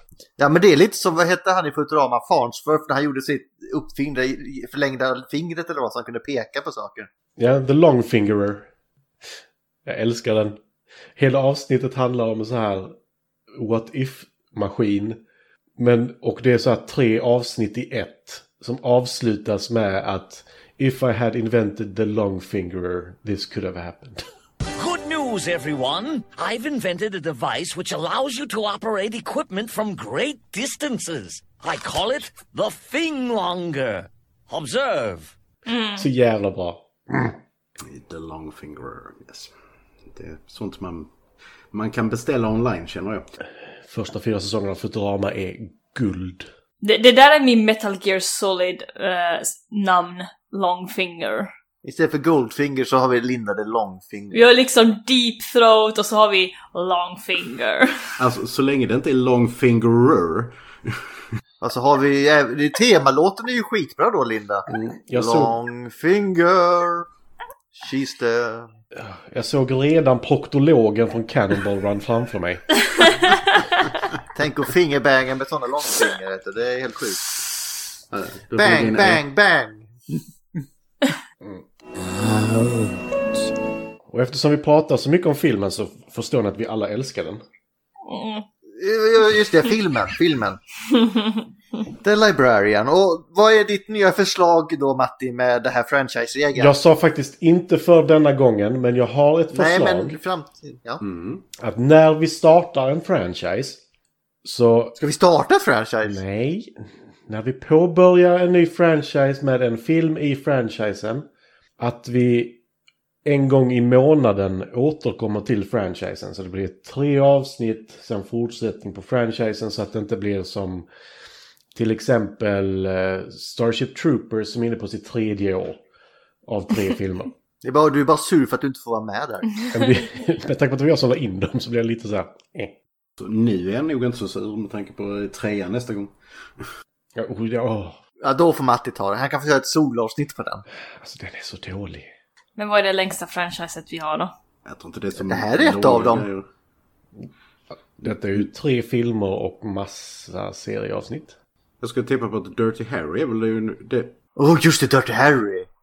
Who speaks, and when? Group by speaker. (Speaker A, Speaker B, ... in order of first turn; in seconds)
Speaker A: 0.4-7.1, 51.8-54.4, 61.6-67.1, 67.8-68.7, 74.3-77.2, 78.5-79.9, 88.7-90.6, 92.0-96.7, 99.5-101.0, 105.0-106.2, 127.6-129.6, 138.2-140.6, 145.2-146.3, 154.3-155.7
Speaker B: 7.4-8.7, 9.8-10.6, 11.2-12.9, 13.5-15.2, 15.8-24.2, 36.0-37.3, 43.8-46.5, 64.7-65.5, 69.0-72.6, 84.1-87.4, 96.5-100.2, 101.6-103.8, 104.4-105.0, 106.0-106.7, 107.3-111.2, 111.8-112.6, 113.2-120.9, 121.7-125.8, 126.5-127.3, 129.7-132.7, 137.2-138.0, 141.0-142.1, 148.0-151.3
Speaker C: 24.8-35.3
Speaker D: 35.7-36.0, 46.8-51.5, 54.3-58.1, 88.1-88.4, 91.0-91.4, 142.6-144.3
Speaker E: 37.8-39.5, 40.0-41.1, 41.7-43.3, 58.2-61.1, 78.1-79.2, 101.0-101.4, 133.2-136.7, 144.6-146.5, 148.0-148.4, 151.8-154.2